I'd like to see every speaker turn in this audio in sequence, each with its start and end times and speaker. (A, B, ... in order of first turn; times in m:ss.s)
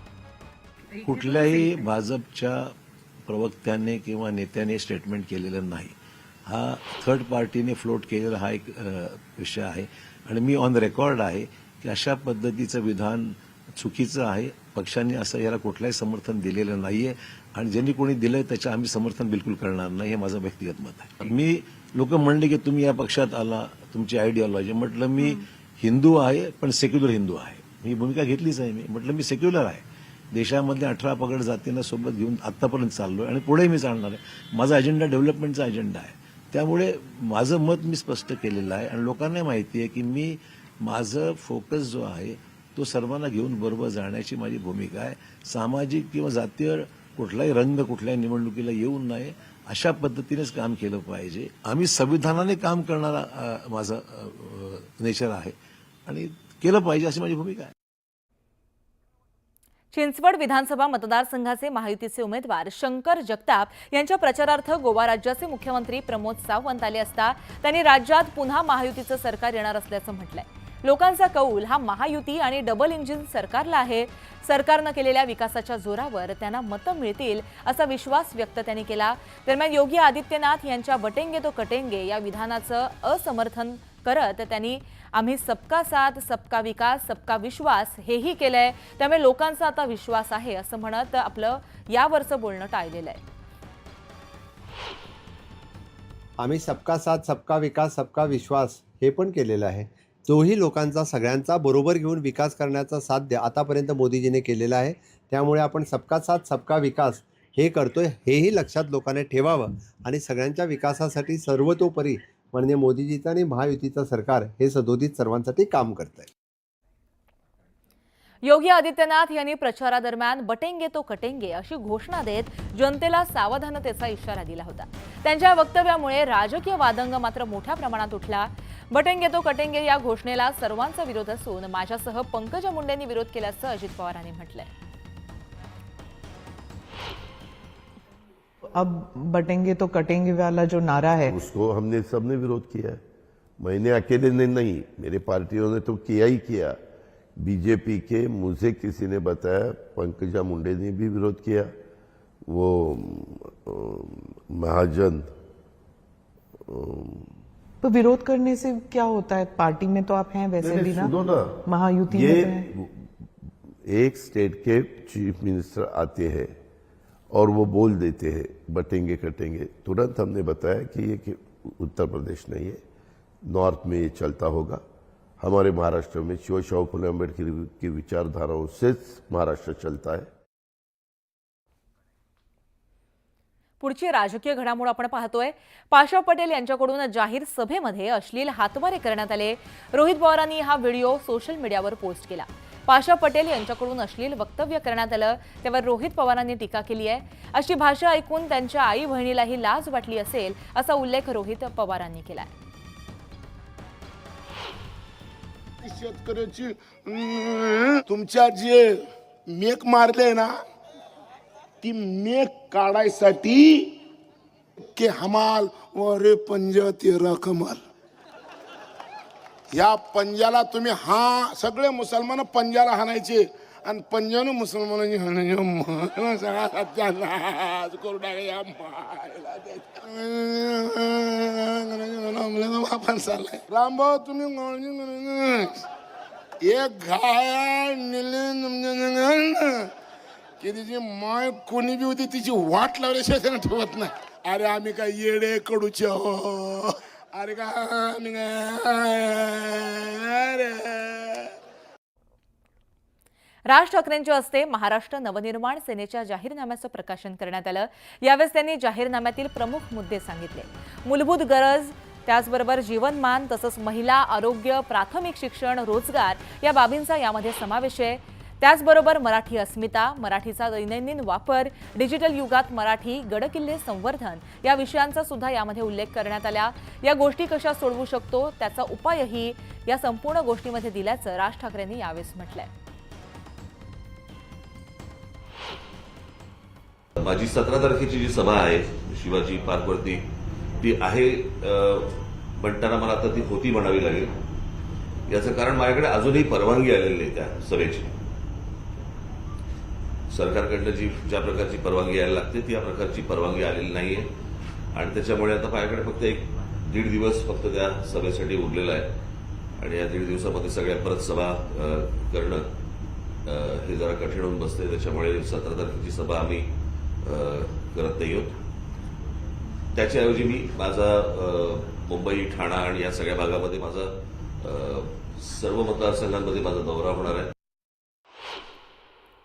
0:01.0-0:02.7 A
0:03.3-0:05.9 A
0:06.4-0:55.6 A
0:56.1-0:57.7 A
0:59.9-1:33.2 B
1:36.4-1:56.3 C
1:58.4-2:14.7 B
2:18.7-2:21.4 D
2:21.3-2:23.0 E
2:23.6-2:26.8 E
2:27.4-2:31.7 E
2:32.5-2:35.3 E
2:36.7-2:37.3 E
2:37.8-2:41.1 D
2:40.6-2:43.1 E
2:41.6-2:42.7 D
2:43.9-2:46.5 E
2:47.3-2:52.8 E
2:53.4-2:54.8 E
2:55.4-3:00.3 E
3:03.8-3:22.5 B
3:25.8-3:30.5 F
3:31.8-3:34.0 F
3:35.0-3:37.8 F
3:39.7-3:55.8 F
3:56.6-3:59.9 F
4:00.6-4:11.5 F
4:13.7-4:42.7 B
4:47.2-4:50.2 G
4:50.8-4:54.3 G
4:55.3-4:58.1 G
5:00.3-5:04.3 G
5:04.9-5:09.1 G
5:09.8-5:12.7 G
5:13.5-5:16.7 G
5:17.2-5:18.6 G
5:20.0-5:27.5 G